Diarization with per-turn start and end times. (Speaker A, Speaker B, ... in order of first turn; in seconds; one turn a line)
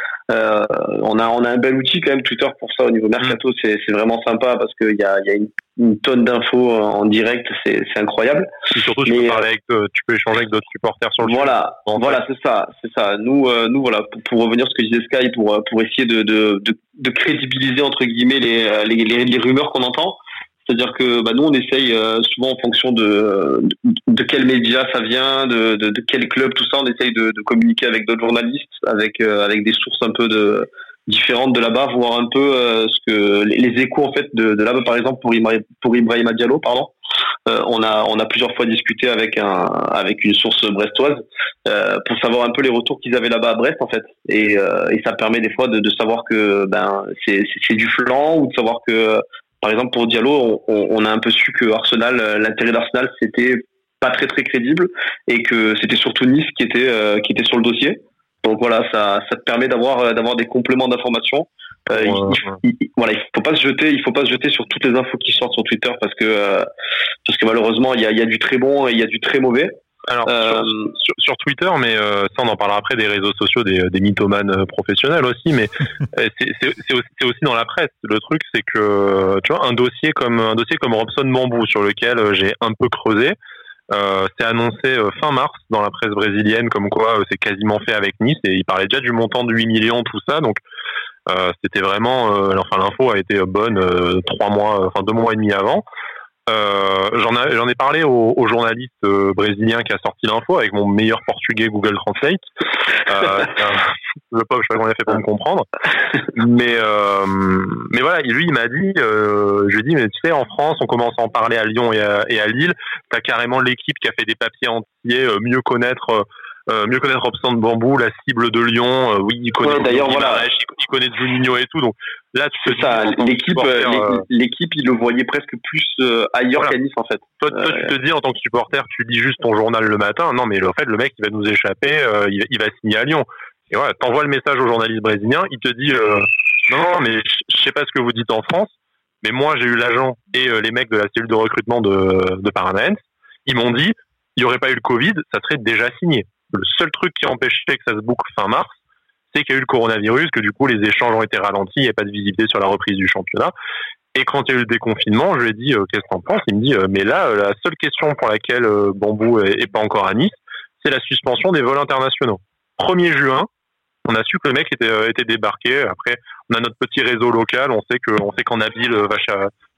Speaker A: 0.3-9.4
Speaker B: 8.7-12.2
Speaker A: 11.2-36.9
Speaker A: 37.5-66.7
Speaker B: 61.9-62.5
Speaker A: 67.2-69.8
Speaker B: 70.1-83.4
Speaker A: 70.3-70.9
Speaker B: 83.9-90.6
Speaker B: 91.3-95.8
Speaker B: 96.5-102.4
Speaker B: 103.0-105.7
Speaker B: 106.3-124.2
Speaker A: 119.6-120.5
Speaker A: 122.6-127.9
Speaker B: 127.4-148.8
Speaker B: 149.3-153.5
Speaker B: 154.2-163.5
Speaker B: 164.1-169.5